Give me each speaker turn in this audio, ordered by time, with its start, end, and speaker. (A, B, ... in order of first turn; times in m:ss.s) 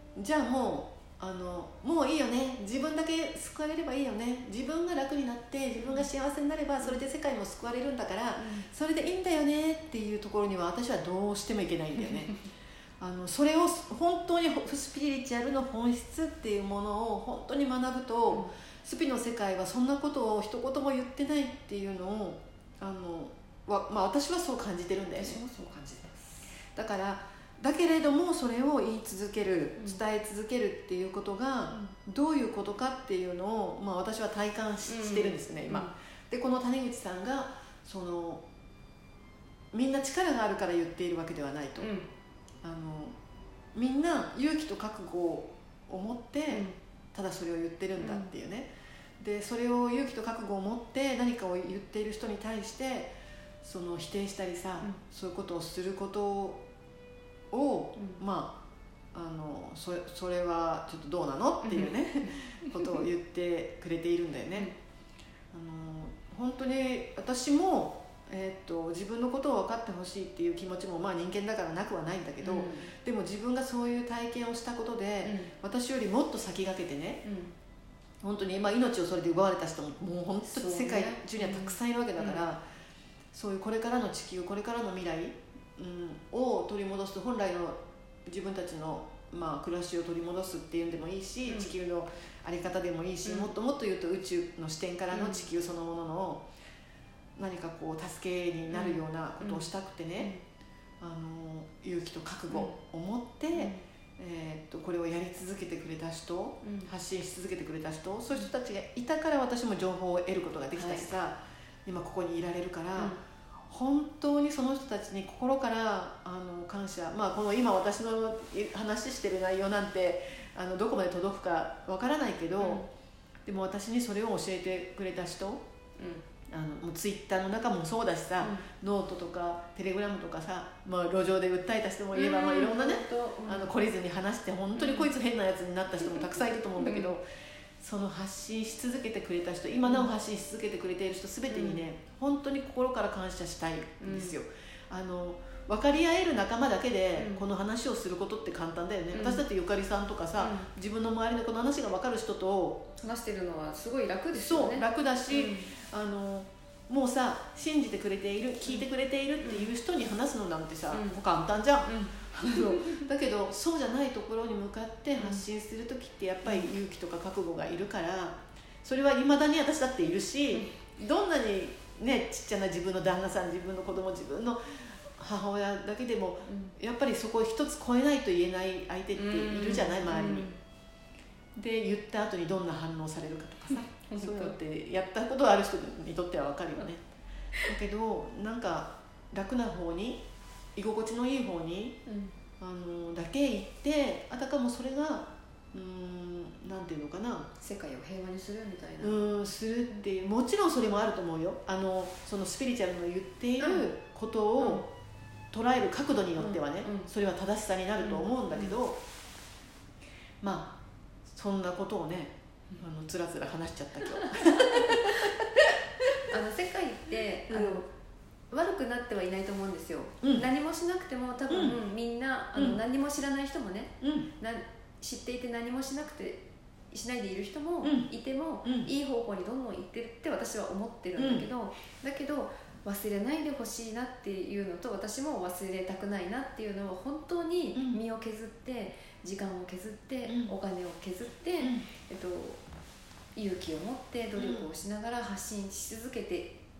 0:00.1-0:12.4 A
0:05.8-0:06.1 B
0:08.4-0:08.6 B
0:13.0-0:25.4 A
0:25.1-0:26.5 B
0:26.6-0:38.4 A
0:31.7-0:31.9 B
0:34.8-0:35.9 B
0:39.7-0:41.9 A
0:41.8-0:42.1 B
0:42.6-0:43.1 A
0:43.7-0:56.6 A
0:46.5-0:46.7 B
0:48.0-0:48.3 B
0:57.5-0:58.6 A
0:58.0-0:58.2 B
0:59.1-1:04.7 A
1:01.6-1:03.0 B
1:05.5-1:17.2 A
1:12.4-1:12.9 B
1:15.2-1:15.5 B
1:17.2-1:17.5 B
1:18.2-1:22.6 A
1:20.5-1:22.4 B
1:23.3-1:36.4 A
1:31.5-1:31.7 B
1:33.2-1:33.5 B
1:35.1-1:35.5 B
1:37.4-1:40.3 A
1:38.7-1:40.4 B
1:41.0-1:53.2 A
1:42.5-1:42.7 B
1:43.5-1:43.8 B
1:46.6-1:46.9 B
1:50.7-1:51.1 B
1:53.7-2:02.8 A
2:02.6-2:02.8 B
2:03.4-2:05.6 A
2:06.0-2:06.2 B
2:06.4-2:17.2 A
2:08.4-2:08.7 B
2:12.1-2:13.7 B
2:14.7-2:15.1 B
2:16.0-2:17.1 B
2:17.8-2:32.9 A
2:21.5-2:21.9 B
2:24.0-2:24.4 B
2:27.2-2:27.4 B
2:29.1-2:29.4 B
2:30.4-2:30.7 B
2:33.0-2:35.7 B
2:34.3-3:00.5 A
2:39.4-2:39.7 B
2:40.9-2:41.2 B
2:41.8-2:43.0 B
2:45.2-2:45.4 B
2:46.4-2:46.7 B
2:50.5-2:50.8 B
2:56.5-2:56.7 B
2:59.1-3:00.5 B
3:01.5-3:07.0 A
3:04.0-3:04.6 B
3:07.6-3:10.2 A
3:10.8-3:12.0 A
3:12.0-3:12.3 B
3:12.6-3:17.5 A
3:17.6-3:19.2 B
3:19.0-3:24.9 A
3:23.6-3:23.9 B
3:24.6-3:24.8 B
3:25.5-3:29.0 A
3:26.4-3:27.1 B
3:28.0-3:28.8 B
3:30.4-3:30.8 A
3:31.3-3:35.6 A
3:34.2-3:35.0 B
3:36.3-3:37.9 B
3:37.5-3:37.8 A
3:38.5-4:02.6 B
3:40.2-3:40.4 A
3:41.5-3:41.8 A
3:42.5-3:42.8 A
3:44.0-3:44.3 A
3:47.8-3:48.1 A
3:48.6-3:48.9 A
3:51.2-3:51.5 A
3:57.7-3:58.0 A
4:00.2-4:00.5 A
4:01.6-4:01.9 A
4:03.3-4:06.5 B
4:04.3-4:04.7 A